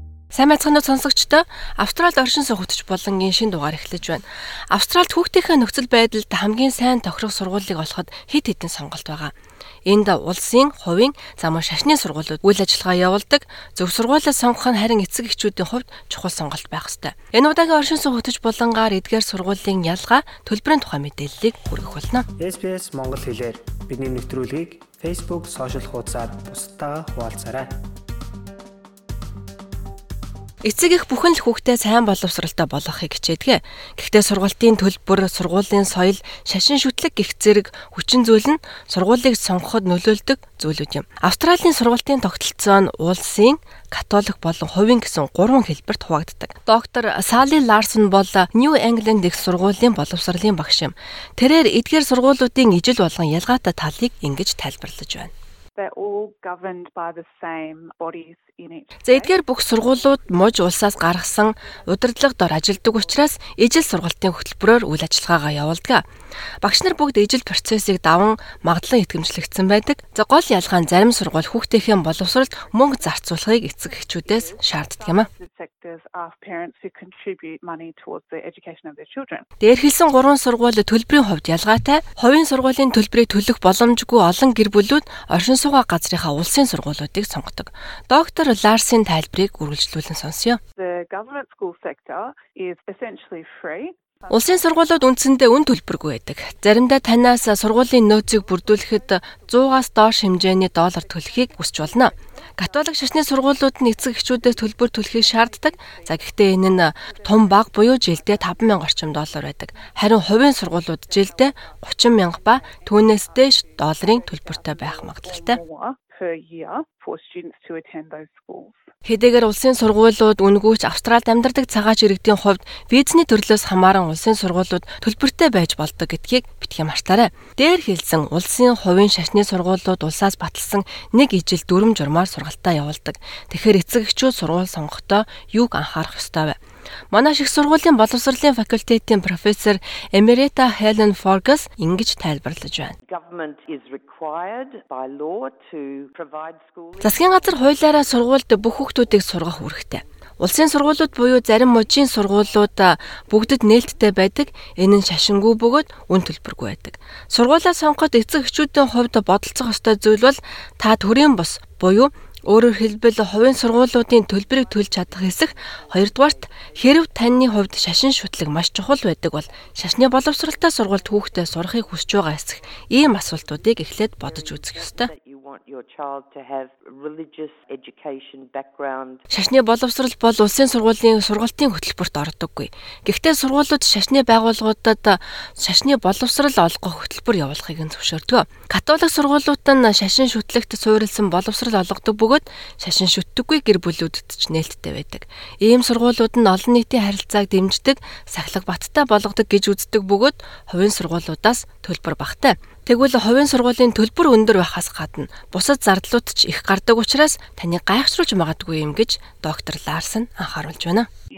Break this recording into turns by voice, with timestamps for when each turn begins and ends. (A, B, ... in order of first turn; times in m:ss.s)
0:00.3-0:09.3 A
0:09.8-0:22.2 A
0:22.4-0:27.7 B
0:30.6-0:55.3 A
0:56.8-0:58.5 C
0:59.0-1:06.0 A
1:06.6-1:15.3 A
1:14.2-1:15.4 C
1:16.1-1:19.2 C
1:19.6-1:30.6 A
1:30.9-1:34.2 C
1:34.3-1:55.6 A
1:56.0-1:58.7 C
1:59.0-2:16.6 A
2:17.1-2:23.0 A
2:23.1-2:27.5 C
2:27.0-2:55.1 A
2:44.9-2:47.3 C
2:54.4-2:59.2 C
2:59.3-3:31.1 A